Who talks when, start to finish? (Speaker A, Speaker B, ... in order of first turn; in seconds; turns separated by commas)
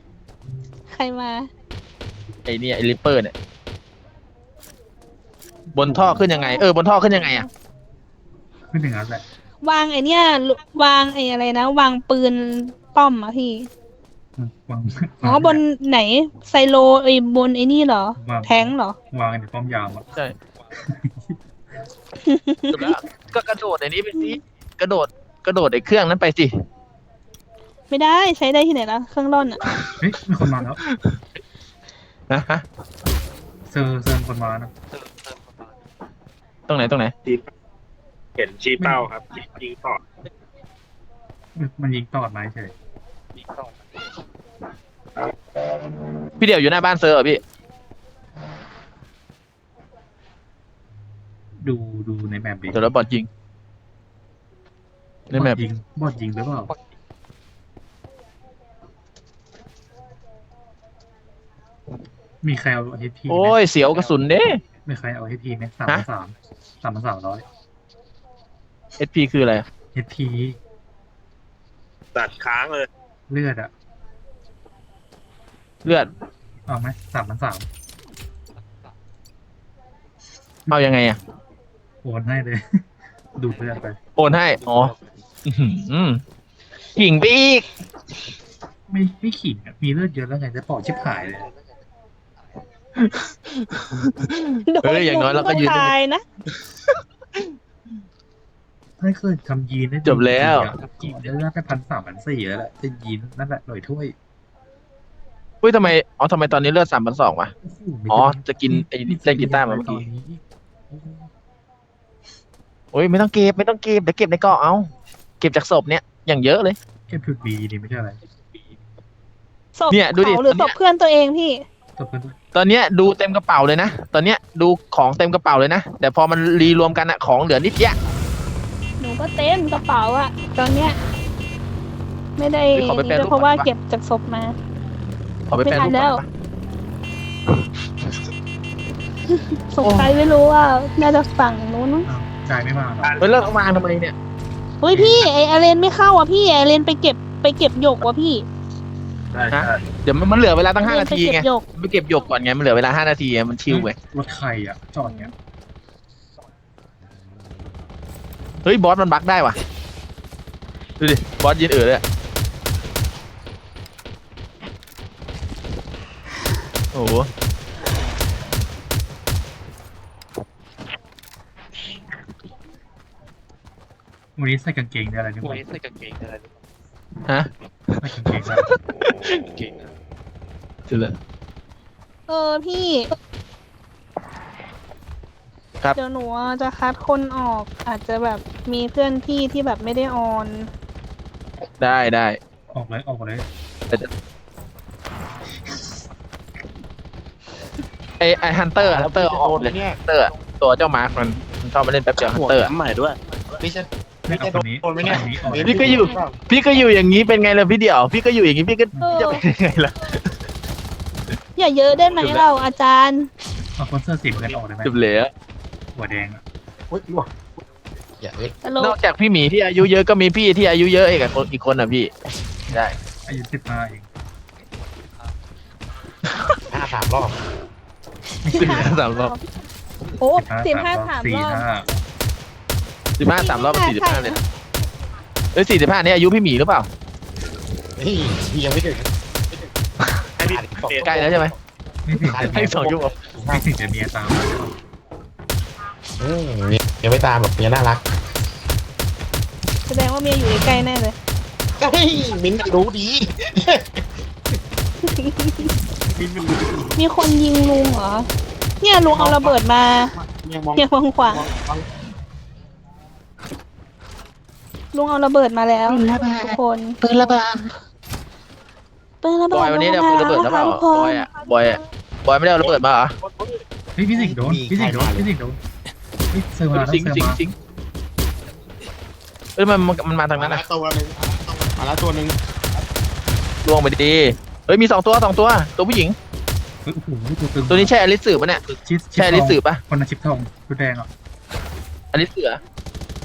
Speaker A: 0.9-1.5, Speaker B: 2.5-3.3, Speaker C: 5.7-6.3, Speaker B: 5.7-7.5, Speaker A: 6.3-6.6, Speaker A: 7.1-7.4, Speaker C: 8.7-9.2, Speaker A: 9.6-13.7, Speaker C: 14.4-15.6, Speaker A: 15.2-18.9, Speaker C: 18.2-20.1, Speaker C: 20.8-21.4, Speaker A: 22.2-22.9, Speaker B: 22.7-26.5, Speaker A: 27.9-29.6, Speaker C: 30.0-30.8, Speaker B: 30.8-31.2, Speaker B: 32.3-32.6, Speaker C: 33.7-34.7, Speaker B: 36.7-37.1, Speaker D: 38.4-40.0, Speaker C: 38.8-39.1, Speaker C: 41.5-42.7, Speaker B: 46.4-47.4, Speaker C: 51.6-52.9, Speaker B: 52.7-53.3, Speaker B: 55.3-55.6, Speaker C: 55.3-56.7, Speaker C: 62.4-63.6, Speaker B: 63.3-64.6, Speaker C: 64.8-67.4, Speaker B: 69.0-69.7, Speaker C: 69.9-70.6, Speaker D: 72.1-72.9, Speaker C: 73.3-73.7, Speaker B: 75.8-76.1, Speaker C: 76.7-77.7, Speaker C: 80.7-81.1, Speaker B: 80.7-81.2, Speaker C: 82.0-82.8, Speaker C: 83.3-84.0, Speaker B: 84.2-84.9, Speaker B: 85.4-86.2, Speaker B: 86.9-87.7, Speaker C: 88.9-91.5, Speaker B: 93.0-95.9, Speaker A: 94.7-96.2, Speaker B: 96.9-97.4, Speaker C: 99.0-104.1, Speaker B: 100.0-101.2, Speaker B: 105.6-107.5, Speaker C: 107.6-111.2, Speaker B: 108.1-110.0, Speaker B: 112.9-114.9, Speaker B: 115.4-116.8, Speaker C: 117.1-118.2, Speaker A: 119.8-121.6, Speaker B: 119.9-120.7, Speaker C: 122.0-122.3, Speaker B: 122.5-128.0, Speaker A: 129.0-131.0, Speaker A: 132.4-134.5, Speaker B: 132.7-133.7, Speaker B: 135.5-136.3, Speaker A: 135.6-136.2, Speaker A: 139.3-142.1, Speaker B: 139.8-140.1, Speaker C: 142.1-143.1, Speaker D: 143.0-143.3, Speaker B: 143.2-144.1, Speaker A: 144.8-148.4, Speaker C: 144.9-145.3, Speaker D: 149.3-149.8, Speaker B: 149.5-153.9, Speaker A: 150.8-151.6, Speaker C: 153.7-155.3, Speaker A: 155.0-155.3, Speaker B: 158.6-159.6, Speaker B: 161.0-162.0, Speaker B: 166.9-167.3, Speaker C: 174.4-175.7, Speaker B: 177.2-179.7, Speaker C: 178.0-178.7, Speaker B: 180.9-181.2, Speaker A: 182.3-183.1, Speaker A: 185.9-190.7, Speaker B: 191.8-192.4, Speaker C: 192.7-193.4, Speaker B: 198.2-202.7, Speaker E: 198.8-200.0, Speaker D: 202.2-203.6, Speaker E: 203.6-206.4, Speaker C: 204.3-206.0, Speaker B: 205.6-210.3, Speaker C: 208.9-209.2, Speaker A: 209.0-209.4, Speaker A: 211.6-213.3, Speaker B: 212.2-212.4, Speaker C: 213.8-215.0, Speaker B: 214.8-215.3, Speaker C: 215.9-216.4, Speaker E: 216.9-217.3, Speaker E: 218.2-218.5, Speaker A: 218.6-219.0, Speaker B: 218.8-222.1, Speaker C: 222.7-224.1, Speaker E: 226.7-227.3, Speaker C: 228.4-229.0, Speaker A: 228.5-229.4, Speaker B: 228.5-229.3, Speaker A: 230.2-231.7, Speaker C: 230.3-231.9, Speaker B: 233.2-234.4, Speaker A: 233.3-234.4, Speaker B: 235.5-236.9, Speaker E: 238.0-239.1, Speaker D: 240.4-241.4, Speaker E: 240.4-241.5, Speaker B: 241.0-241.5, Speaker C: 242.1-242.8, Speaker E: 242.2-243.7, Speaker B: 242.4-243.1, Speaker C: 243.5-244.7, Speaker E: 246.2-248.0, Speaker A: 249.9-251.1, Speaker E: 251.8-254.1, Speaker A: 255.0-255.7, Speaker E: 256.0-257.0, Speaker A: 257.0-258.3, Speaker A: 258.8-260.1, Speaker E: 259.0-261.9, Speaker A: 260.8-261.4, Speaker A: 264.9-267.0, Speaker B: 265.8-267.7, Speaker A: 269.2-271.8, Speaker B: 269.5-273.1, Speaker D: 272.7-273.6, Speaker C: 273.9-275.6, Speaker E: 274.1-275.3, Speaker C: 276.3-277.4, Speaker B: 276.7-277.5, Speaker B: 279.6-280.6, Speaker E: 280.3-282.4, Speaker B: 283.6-286.1, Speaker C: 286.8-287.9, Speaker B: 287.7-288.6, Speaker C: 288.8-291.1, Speaker B: 289.1-289.8, Speaker B: 292.1-292.6